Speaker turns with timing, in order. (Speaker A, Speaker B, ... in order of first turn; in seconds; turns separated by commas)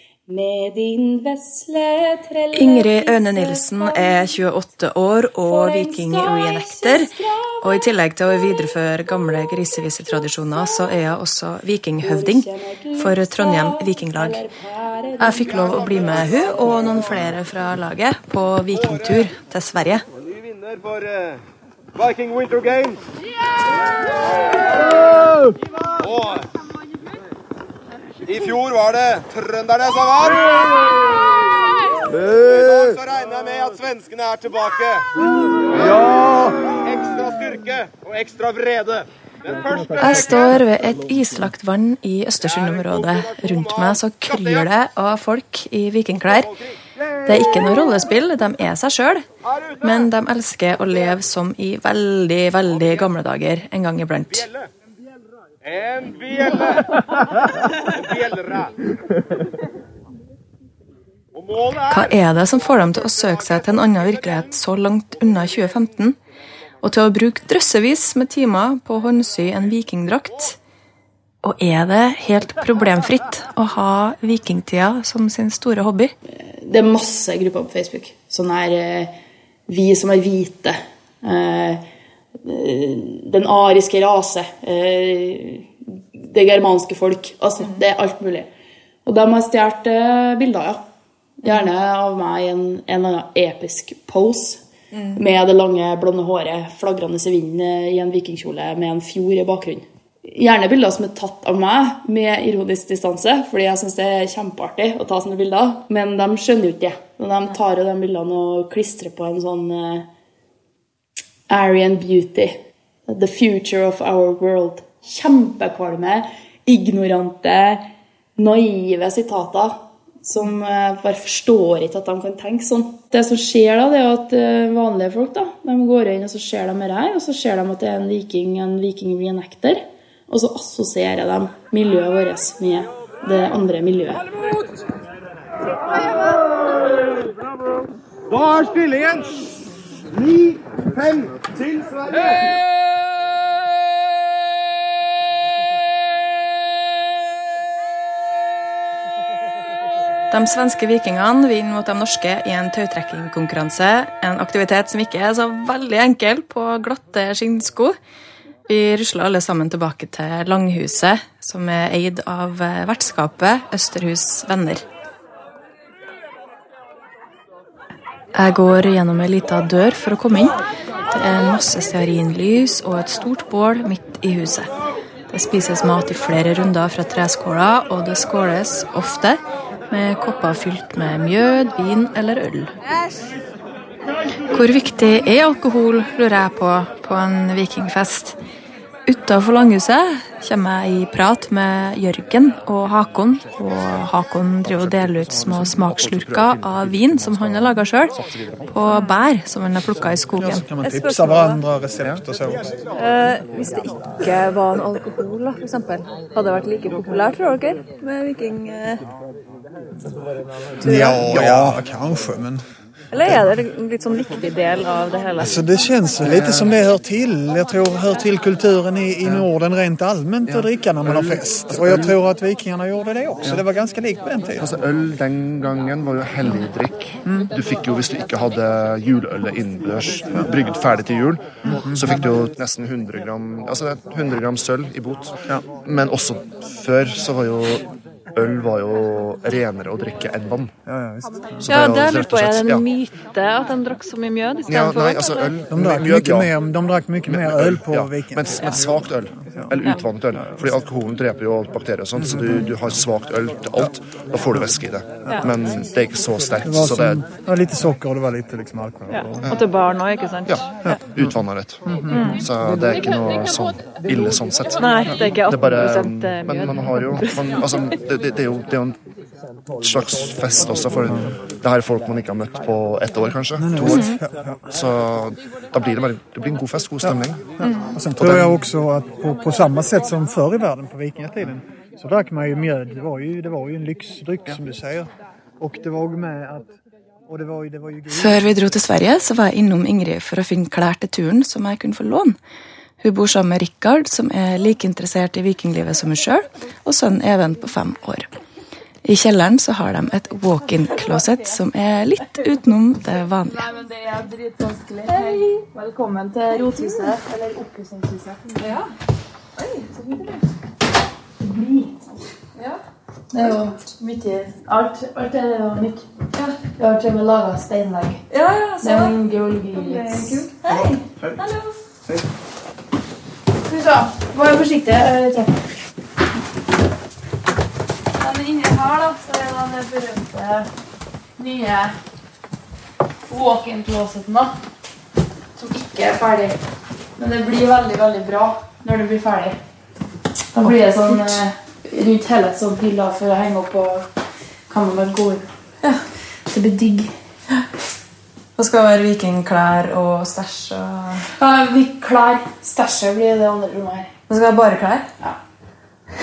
Speaker A: 0.3-4.3, Speaker B: 2.5-14.4, Speaker A: 5.4-8.7, Speaker A: 9.8-10.9, Speaker A: 12.0-16.8, Speaker B: 15.2-20.0, Speaker C: 28.4-30.0, Speaker C: 32.3-34.8, Speaker C: 36.9-38.9, Speaker B: 39.9-46.5, Speaker B: 47.2-49.3, Speaker B: 49.8-54.5, Speaker C: 56.0-56.5, Speaker C: 58.0-58.6, Speaker B: 61.8-66.2, Speaker B: 66.8-70.6, Speaker B: 71.4-76.1, Speaker A: 76.3-79.1, Speaker A: 79.7-81.8, Speaker A: 82.4-88.5, Speaker A: 89.0-90.8, Speaker A: 91.4-94.6, Speaker D: 95.0-95.2, Speaker A: 95.1-110.0, Speaker A: 111.5-117.8, Speaker A: 118.3-134.2, Speaker C: 138.5-139.1, Speaker B: 150.3-157.9, Speaker B: 158.7-164.8, Speaker B: 168.3-170.5, Speaker B: 171.1-174.7, Speaker B: 175.3-179.4, Speaker B: 179.9-182.7, Speaker B: 184.5-188.4, Speaker B: 189.1-198.1, Speaker E: 194.7-198.7, Speaker B: 198.7-200.6, Speaker F: 200.3-202.7, Speaker D: 200.8-201.6, Speaker D: 202.9-209.0, Speaker D: 210.8-211.4, Speaker F: 210.8-212.6, Speaker E: 211.2-211.8, Speaker D: 213.1-215.6, Speaker F: 215.4-224.7, Speaker E: 216.2-216.7, Speaker E: 219.2-219.5, Speaker E: 220.4-222.2, Speaker E: 224.6-240.7, Speaker F: 231.7-232.2, Speaker F: 240.8-241.8, Speaker E: 241.7-242.8, Speaker D: 241.7-245.6, Speaker E: 244.7-246.5, Speaker F: 245.7-249.7, Speaker E: 247.2-257.2, Speaker F: 256.6-259.5, Speaker D: 259.1-260.6, Speaker E: 260.4-269.0, Speaker F: 260.8-261.3, Speaker F: 261.8-262.2, Speaker D: 262.1-262.4, Speaker D: 264.8-267.7, Speaker E: 269.8-277.5, Speaker F: 273.6-274.6, Speaker F: 277.9-286.7, Speaker E: 278.1-278.6, Speaker F: 287.3-288.4, Speaker B: 288.1-292.4, Speaker B: 293.0-298.3, Speaker B: 299.0-303.6, Speaker A: 303.5-308.6, Speaker D: 305.1-305.4, Speaker D: 309.6-310.4, Speaker A: 311.4-312.0, Speaker A: 313.3-316.0, Speaker A: 316.7-318.2, Speaker D: 318.3-319.1, Speaker A: 318.8-320.9, Speaker D: 319.7-321.7, Speaker A: 323.6-325.6, Speaker A: 328.1-330.7, Speaker A: 331.4-331.9, Speaker A: 333.3-334.5, Speaker A: 335.6-336.6, Speaker A: 337.2-339.6, Speaker A: 340.5-344.0, Speaker B: 340.6-341.1, Speaker A: 344.7-347.1, Speaker B: 348.6-351.2, Speaker A: 351.4-354.1, Speaker B: 354.3-355.0